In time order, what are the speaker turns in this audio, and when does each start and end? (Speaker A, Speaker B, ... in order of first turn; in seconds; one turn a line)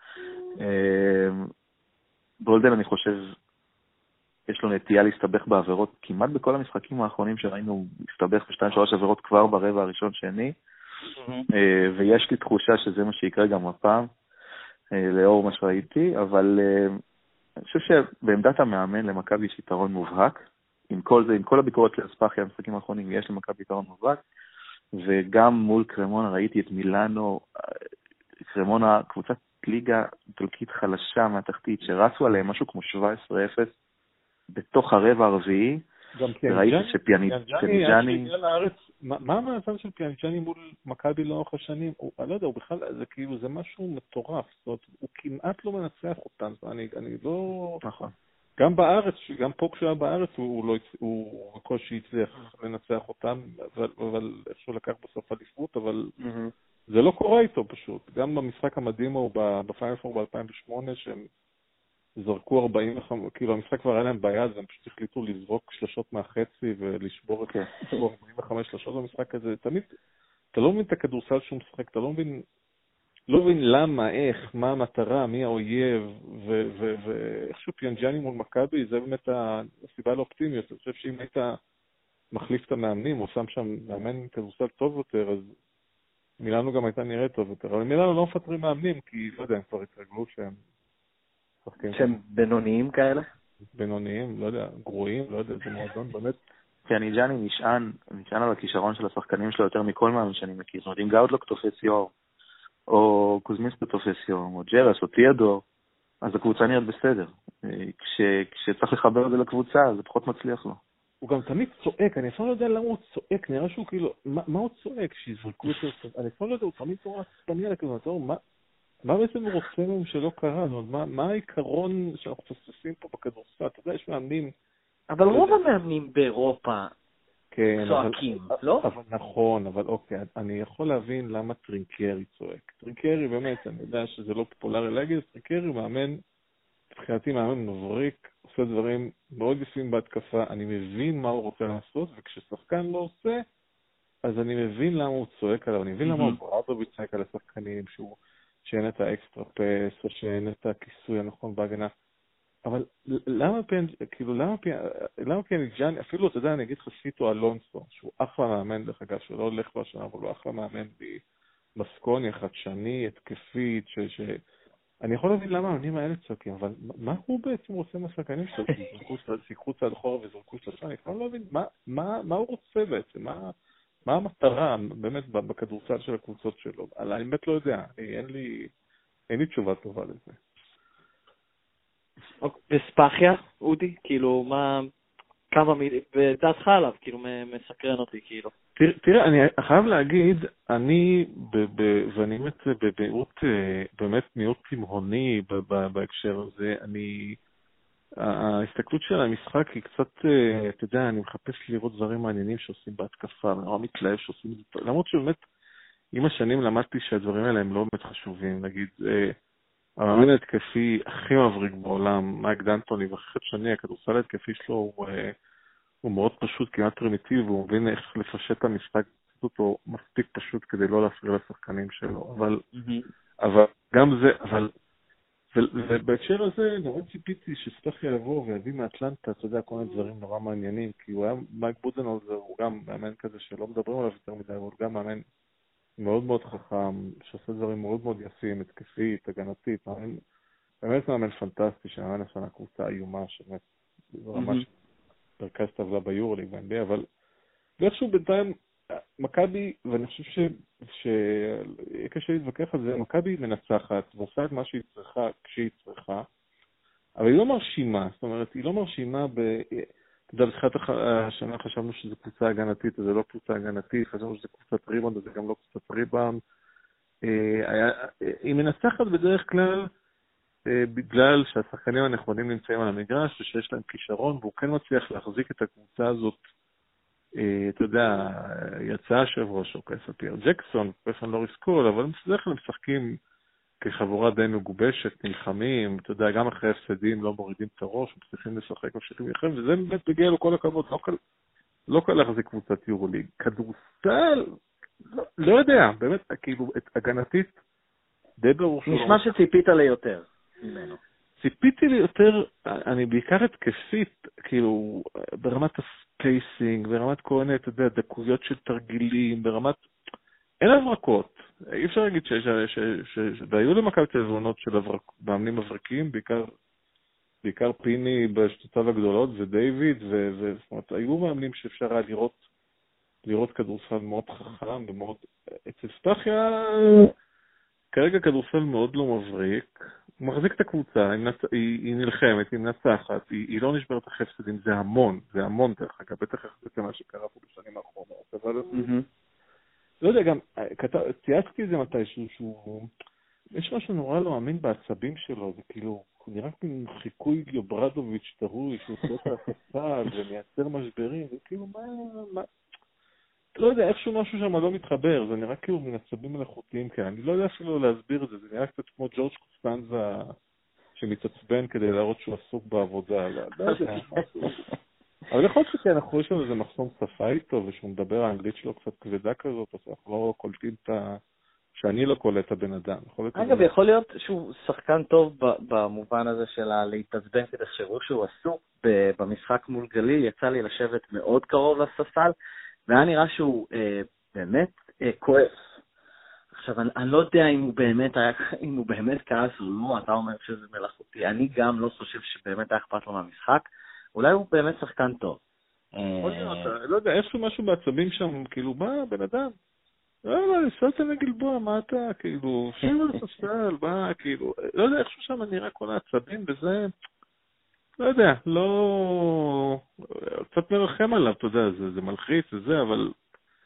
Speaker A: 0.6-1.5
Speaker A: 2.4-3.3
Speaker A: 4.5-10.6
Speaker B: 11.2-11.4
Speaker A: 11.5-14.1
Speaker A: 14.9-17.0
Speaker A: 17.7-24.2
Speaker A: 24.9-27.5
Speaker A: 28.4-33.7
Speaker A: 34.5-35.9
Speaker C: 36.1-47.8
Speaker A: 36.5-38.3
Speaker A: 47.8-48.1
Speaker C: 48.6-56.1
Speaker B: 56.2-56.5
Speaker C: 56.9-61.3
Speaker C: 62.1-69.9
Speaker C: 70.5-72.4
Speaker C: 73.3-81.6
Speaker C: 82.3-85.5
Speaker C: 86.4-90.6
Speaker C: 91.6-92.0
Speaker B: 91.9-93.2
Speaker C: 93.7-96.4
Speaker A: 96.9-102.1
Speaker A: 102.9-105.6
Speaker A: 106.2-110.8
Speaker C: 111.2-118.4
Speaker C: 119.0-124.5
Speaker B: 125.1-126.9
Speaker C: 125.3-125.6
Speaker C: 127.5-136.2
Speaker B: 127.8-128.8
Speaker C: 136.9-143.4
Speaker C: 144.2-151.9
Speaker B: 146.0-146.4
Speaker C: 152.6-161.2
Speaker C: 161.8-164.4
Speaker C: 165.0-173.5
Speaker C: 174.1-178.7
Speaker C: 179.3-180.4
Speaker B: 182.4-184.9
Speaker B: 185.5-188.5
Speaker C: 188.8-197.4
Speaker C: 198.2-205.4
Speaker C: 206.1-209.4
Speaker C: 210.0-215.3
Speaker C: 216.0-222.6
Speaker B: 222.7-223.1
Speaker C: 223.4-224.7
Speaker C: 225.5-235.2
Speaker C: 236.0-240.2
Speaker C: 240.8-243.6
Speaker C: 244.2-244.7
Speaker B: 244.3-244.6
Speaker C: 245.4-247.0
Speaker C: 247.8-256.2
Speaker C: 257.2-266.4
Speaker C: 267.2-269.9
Speaker C: 270.6-276.4
Speaker C: 277.4-283.2
Speaker C: 283.8-291.2
Speaker C: 291.9-294.5
Speaker C: 295.1-297.5
Speaker C: 298.4-299.2
Speaker B: 298.9-301.0
Speaker C: 301.4-309.8
Speaker C: 310.6-316.5
Speaker C: 317.4-322.4
Speaker C: 323.2-327.1
Speaker C: 327.9-338.8
Speaker B: 338.7-339.1
Speaker C: 340.0-342.9
Speaker C: 343.5-352.5
Speaker C: 353.5-360.4
Speaker C: 360.9-364.6
Speaker B: 363.6-364.2
Speaker C: 365.3-371.2
Speaker C: 371.7-373.7
Speaker B: 373.4-382.3
Speaker B: 382.9-385.7
Speaker B: 386.5-395.4
Speaker B: 395.9-396.7
Speaker C: 396.2-399.5
Speaker C: 400.3-406.9
Speaker B: 402.8-403.2
Speaker C: 408.0-413.1